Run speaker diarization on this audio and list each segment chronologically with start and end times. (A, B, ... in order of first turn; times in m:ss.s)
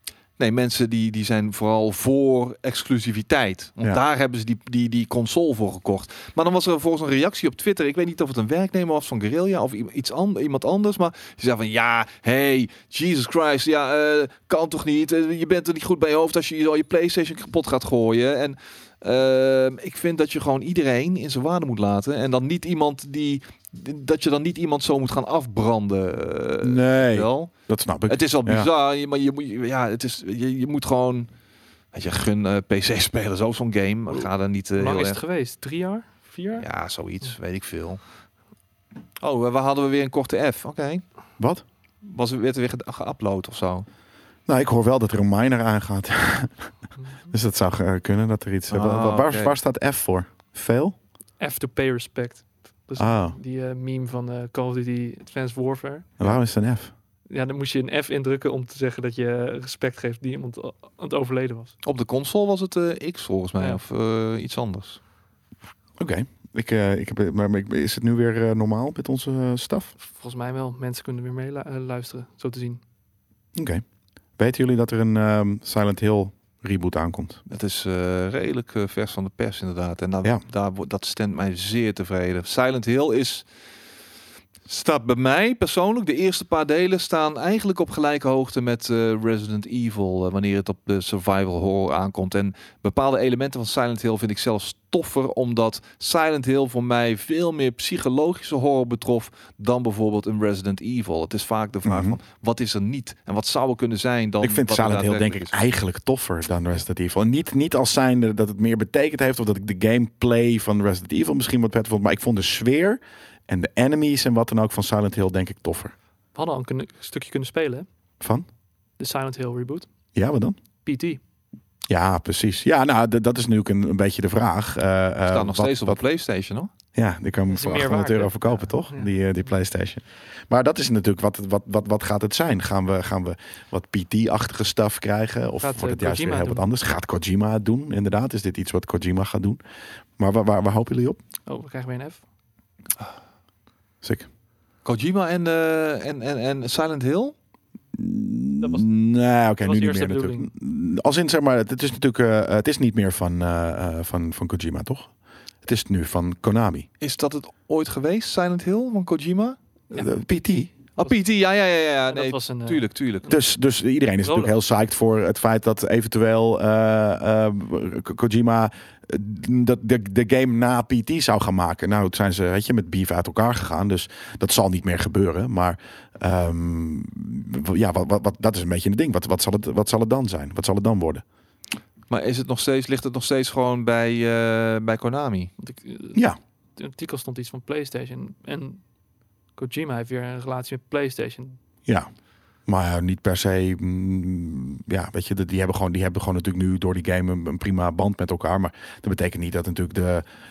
0:00.4-0:27.5 A
0:26.6-0:28.7 B
0:28.1-0:31.3 A
0:31.9-0:35.2 A
0:34.1-0:36.7 C
0:36.6-0:38.0 A
0:39.2-0:41.0 A
0:41.4-0:41.6 B
0:42.0-0:43.8 A
0:44.5-0:46.7 B
0:47.0-0:47.3 C
0:47.3-0:50.9 B
0:48.7-0:49.5 A
0:51.4-0:56.2 C
0:53.0-0:53.4 B
0:56.2-0:56.9 B
0:57.3-1:01.8 C
1:01.8-1:05.0 A
1:06.0-1:09.9 B
1:10.0-1:12.8 C
1:13.6-1:13.8 B
1:14.4-1:17.4 B
1:17.5-1:23.5 A
1:24.7-1:45.6 A
1:41.8-1:42.2 B
1:44.4-1:55.9 B
1:56.3-1:57.9 C
1:58.2-1:58.5 B
1:59.0-1:59.9 C
2:00.1-2:00.6 B
2:00.8-2:01.2 C
2:01.9-2:06.0 B
2:05.3-2:06.7 A
2:06.9-2:19.6 B
2:07.5-2:09.1 C
2:15.6-2:16.6 C
2:20.2-2:21.2 B
2:21.5-2:22.2 C
2:24.0-2:24.3 B
2:24.8-2:27.3 A
2:27.9-2:36.9 B
2:28.6-2:28.9 C
2:29.6-2:30.5 C
2:37.0-2:39.6 A
2:39.9-2:40.7 B
2:39.9-2:41.1 C
2:41.0-2:43.2 A
2:42.1-2:43.4 C
2:43.3-3:01.2 B
2:44.2-2:44.5 C
3:02.1-3:05.5 A
3:05.6-3:06.2 C
3:06.8-3:08.8 C
3:09.6-3:11.6 C
3:12.6-3:20.2 B